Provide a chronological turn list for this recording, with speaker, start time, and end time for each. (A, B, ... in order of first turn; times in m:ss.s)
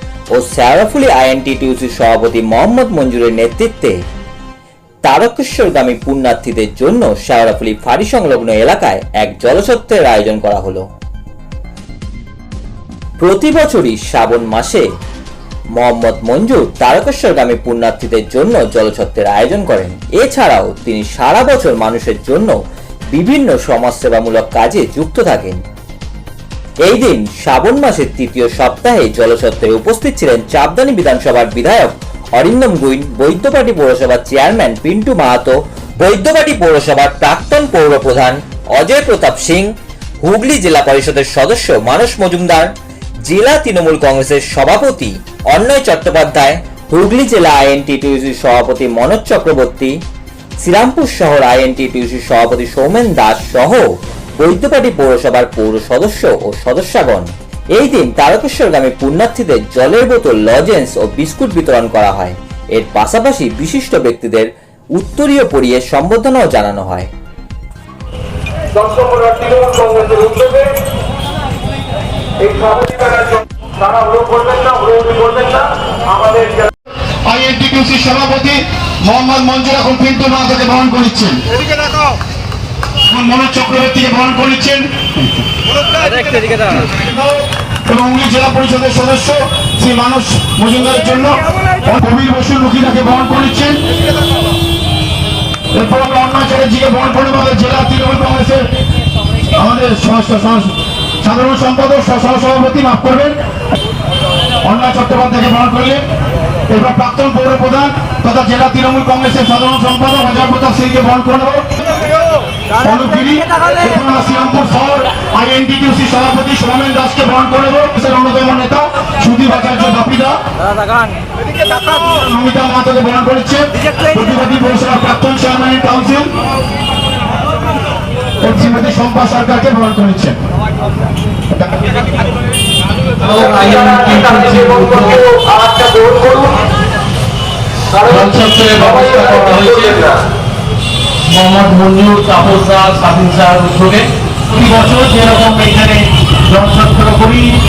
0:00.3-0:04.0 A
0:05.0-0:10.8 A
0:13.2-0:14.8 A
0:15.8-0:22.5 A
0:23.1-0:25.6 A
0:26.8-0:42.7 A
0:43.2-0:50.0 A
0:50.6-0:53.8 A
0:54.4-1:07.1 A
1:08.8-1:10.7 B
1:12.6-1:12.9 B
1:14.0-1:15.6 B
1:17.3-1:21.4 C
1:23.1-1:24.9 C
1:26.5-1:33.8 C
1:35.7-1:38.6 C
1:39.5-1:43.4 C
1:44.6-1:46.0 C
1:46.7-1:51.9 C
1:52.8-2:00.4 C
2:02.0-2:06.3 C
2:08.4-2:10.4 C
2:13.2-2:15.3 D
2:15.7-2:16.4 B
2:17.9-2:20.1 D
2:21.3-2:27.5 D